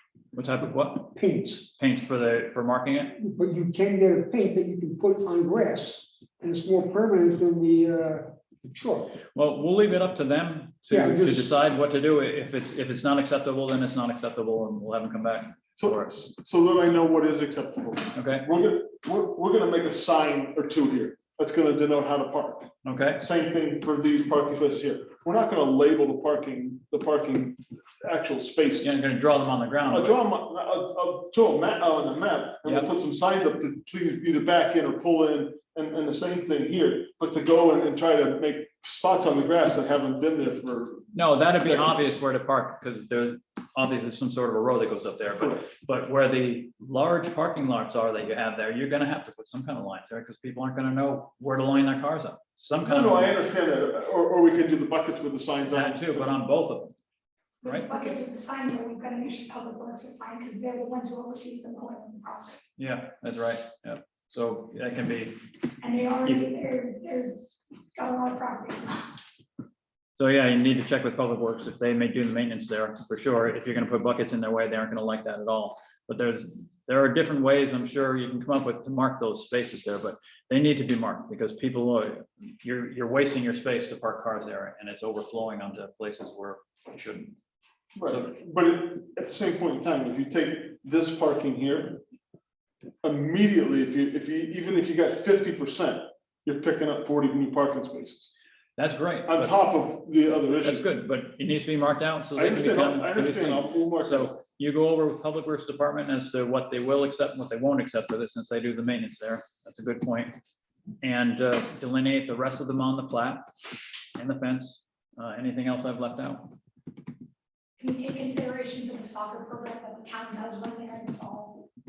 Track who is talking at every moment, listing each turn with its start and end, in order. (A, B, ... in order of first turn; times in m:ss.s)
0:00.3-0:01.2 A
0:01.1-0:01.7 B
0:01.8-0:03.2 A
0:03.2-0:09.1 B
0:09.4-0:16.1 A
0:10.9-0:11.5 B
0:15.8-0:28.9 C
0:18.2-0:18.5 A
0:22.8-0:23.2 A
0:28.8-0:30.2 A
0:29.9-0:41.1 C
0:32.6-0:32.9 A
0:41.1-0:53.4 A
0:41.6-0:42.1 C
0:52.8-0:56.3 C
0:55.7-0:57.0 A
0:57.6-1:02.6 D
0:57.6-0:58.1 A
1:02.8-1:05.5 A
1:05.8-1:07.4 D
1:06.2-1:06.5 A
1:08.0-1:09.2 D
1:10.2-1:27.4 A
1:28.0-1:32.0 C
1:28.1-1:28.4 A
1:33.0-1:38.3 C
1:38.8-1:39.6 A
1:39.3-1:40.9 C
1:40.6-1:50.4 A
1:42.4-1:44.3 C
1:51.0-1:53.5 A
1:54.2-1:56.6 A
1:57.8-2:01.7 D